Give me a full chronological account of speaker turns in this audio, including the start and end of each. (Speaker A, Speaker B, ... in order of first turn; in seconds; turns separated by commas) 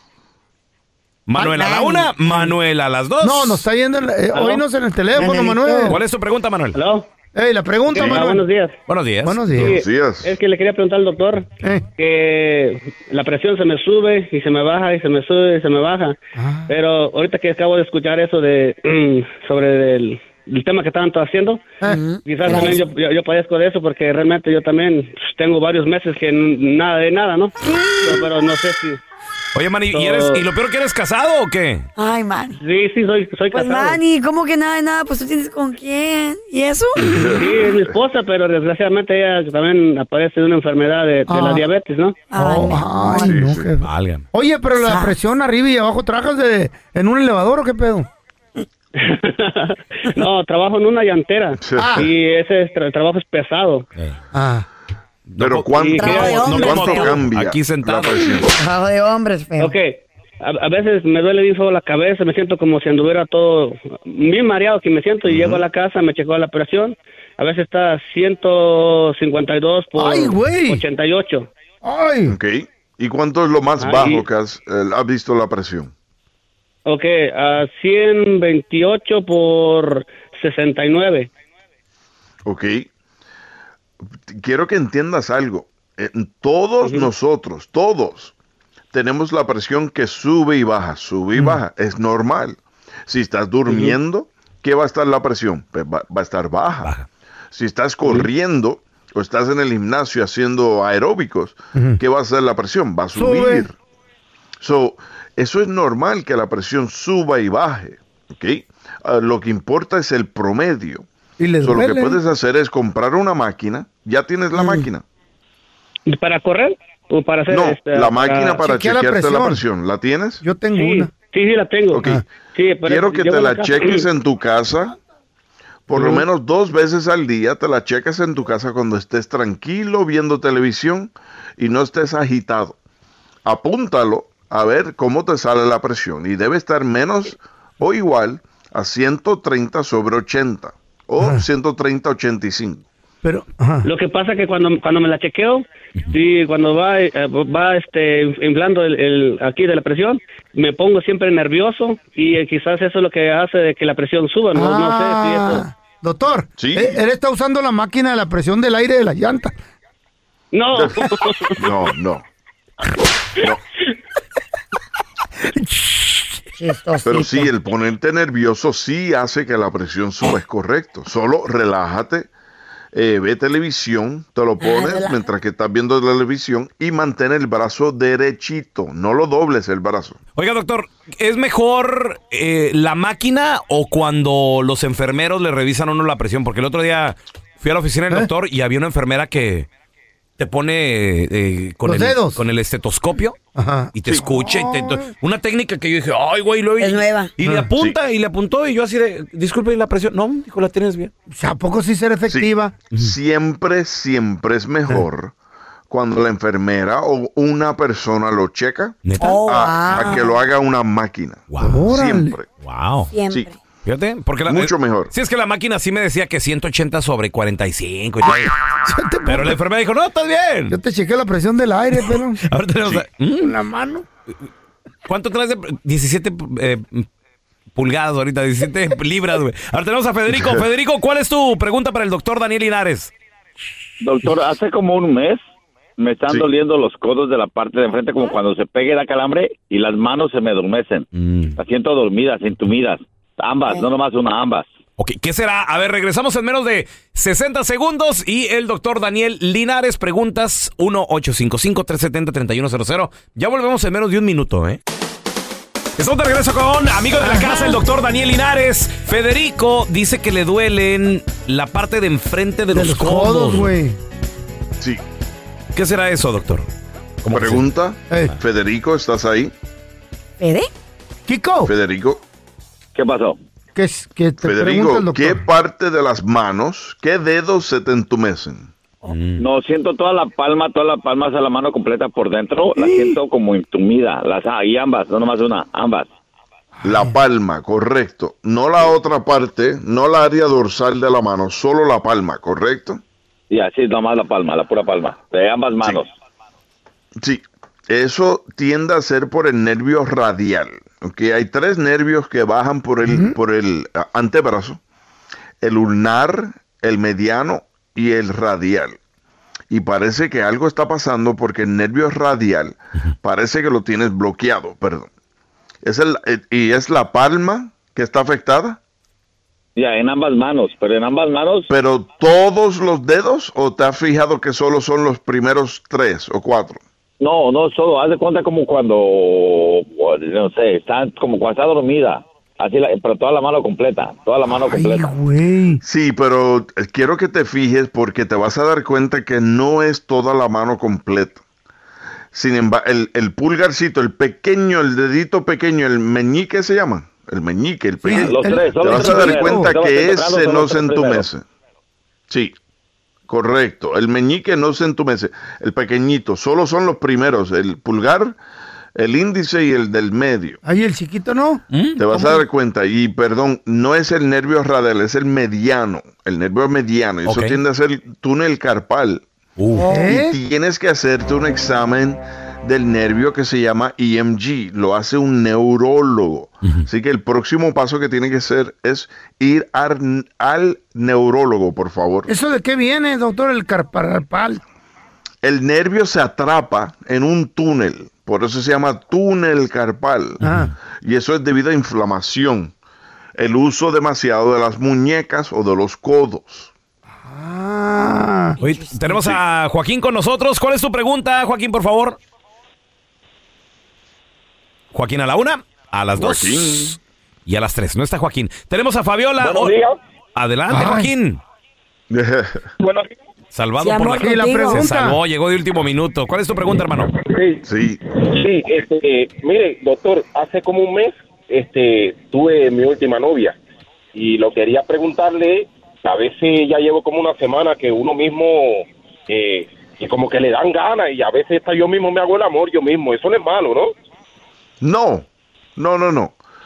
Speaker A: 1.3-3.6, Speaker B: 1.4-1.7, Speaker C: 1.5-2.1, Speaker B: 3.2-6.0, Speaker D: 4.3-4.6, Speaker C: 5.1-6.0, Speaker A: 5.9-6.8, Speaker D: 6.7-7.1, Speaker B: 7.3-8.4, Speaker D: 7.9-8.8, Speaker E: 8.0-8.2, Speaker A: 8.9-9.6, Speaker B: 9.2-9.7, Speaker D: 9.5-16.2, Speaker E: 9.6-10.3, Speaker B: 16.4-16.7, Speaker D: 16.7-21.6, Speaker B: 21.8-22.7, Speaker C: 21.9-22.8, Speaker D: 22.2-29.0, Speaker C: 27.6-28.2, Speaker A: 29.5-31.9, Speaker D: 29.9-30.4, Speaker C: 32.0-32.6, Speaker D: 32.6-34.0, Speaker C: 33.5-37.4, Speaker E: 37.1-37.9, Speaker D: 37.4-42.2, Speaker B: 41.3-41.6, Speaker C: 42.3-43.4, Speaker B: 42.3-48.1, Speaker E: 43.2-43.7, Speaker A: 43.8-44.2, Speaker C: 44.8-45.1, Speaker D: 49.0-53.9, Speaker E: 51.6-52.1, Speaker B: 51.8-52.1, Speaker B: 54.3-54.7, Speaker A: 55.3-58.4, Speaker E: 55.4-58.5, Speaker D: 55.8-56.5, Speaker C: 56.0-57.2, Speaker C: 58.5-59.7, Speaker D: 59.6-71.5, Speaker E: 65.3-65.6, Speaker B: 70.0-70.8, Speaker B: 71.8-72.4, Speaker E: 72.3-75.9, Speaker D: 73.8-74.3, Speaker D: 76.8-81.3, Speaker E: 82.4-82.9, Speaker E: 84.3-88.3, Speaker D: 86.8-87.1, Speaker E: 88.9-96.9, Speaker D: 93.7-94.0, Speaker E: 97.5-103.7, Speaker B: 101.7-102.0, Speaker B: 103.1-103.7, Speaker E: 104.6-111.0, Speaker B: 111.4-112.2, Speaker E: 111.6-115.0, Speaker C: 114.5-114.9, Speaker D: 116.1-118.6, Speaker E: 117.5-120.4, Speaker B: 118.6-119.6, Speaker B: 120.4-121.1, Speaker D: 120.7-124.1, Speaker E: 121.9-122.2, Speaker E: 122.8-125.0, Speaker E: 125.9-132.8, Speaker D: 126.0-126.2, Speaker E: 133.4-142.8, Speaker B: 141.2-141.4, Speaker B: 143.2-143.9, Speaker D: 143.8-155.6, Speaker B: 154.5-159.6, Speaker E: 156.6-157.0, Speaker D: 160.5-161.6, Speaker E: 160.7-161.0, Speaker E: 161.6-162.2, Speaker B: 165.4-166.4, Speaker C: 166.6-167.5, Speaker E: 167.0-172.3, Speaker E: 172.9-180.2, Speaker C: 174.6-175.2, Speaker A: 180.3-189.7, Speaker A: 190.4-193.4, Speaker B: 191.8-192.4, Speaker B: 193.5-195.1, Speaker A: 193.9-201.1, Speaker C: 196.8-197.3, Speaker B: 201.3-202.8, Speaker E: 202.3-205.3, Speaker E: 205.9-212.4, Speaker A: 209.0-209.4, Speaker C: 209.2-210.4, Speaker A: 211.5-211.9, Speaker B: 211.6-212.3, Speaker A: 212.6-213.1, Speaker C: 213.1-213.6, Speaker A: 213.8-218.6, Speaker E: 214.5-215.1, Speaker B: 218.8-219.6, Speaker A: 219.2-220.8, Speaker B: 220.7-222.4, Speaker A: 222.0-223.6, Speaker B: 223.4-224.0, Speaker A: 225.1-227.1, Speaker A: 227.7-233.1, Speaker E: 230.3-230.6, Speaker F: 234.0-235.4, Speaker F: 236.0-244.7, Speaker A: 241.1-241.6, Speaker A: 245.0-254.8, Speaker A: 256.0-263.7, Speaker B: 257.2-257.7, Speaker B: 262.7-264.0, Speaker A: 265.7-266.7, Speaker A: 267.2-267.6, Speaker E: 267.3-269.5, Speaker B: 268.1-268.3, Speaker C: 270.4-270.7, Speaker B: 271.3-271.7, Speaker E: 271.6-272.2, Speaker F: 272.9-273.4, Speaker B: 273.7-275.4, Speaker E: 274.4-278.7, Speaker A: 279.0-279.4, Speaker F: 279.4-286.1, Speaker B: 282.8-283.2, Speaker E: 286.8-293.0, Speaker B: 286.9-287.1, Speaker F: 293.5-296.1, Speaker E: 297.2-304.8, Speaker B: 303.0-303.4, Speaker E: 305.6-309.0, Speaker E: 309.7-315.1, Speaker E: 315.8-318.8, Speaker F: 319.8-321.7, Speaker E: 321.7-326.8, Speaker F: 327.2-335.1, Speaker B: 334.5-335.8, Speaker E: 335.8-341.4, Speaker E: 342.3-351.4, Speaker B: 348.0-349.8, Speaker F: 348.1-351.3, Speaker E: 352.3-352.5, Speaker E: 353.3-358.4, Speaker E: 358.9-360.6, Speaker B: 360.6-362.4, Speaker A: 361.7-362.0, Speaker E: 362.0-369.2, Speaker A: 367.2-367.6, Speaker A: 369.6-369.9, Speaker C: 369.7-370.1, Speaker B: 369.9-370.4, Speaker E: 370.0-382.3, Speaker B: 382.3-384.6, Speaker E: 385.4-390.4, Speaker A: 390.4-390.7, Speaker B: 390.4-390.7, Speaker E: 391.0-392.7, Speaker E: 393.4-396.7, Speaker B: 397.2-398.6, Speaker C: 398.6-399.2, Speaker A: 398.6-402.2, Speaker A: 404.9-409.7, Speaker E: 406.1-407.0, Speaker G: 409.4-410.0, Speaker A: 410.3-411.4, Speaker B: 410.7-411.1, Speaker E: 412.1-412.6, Speaker G: 412.8-413.1, Speaker A: 413.5-417.1, Speaker C: 413.8-414.9, Speaker B: 414.1-415.2, Speaker G: 417.0-417.6, Speaker E: 417.6-418.0, Speaker G: 418.2-423.6, Speaker G: 424.1-433.9, Speaker E: 434.8-435.2, Speaker E: 435.8-436.4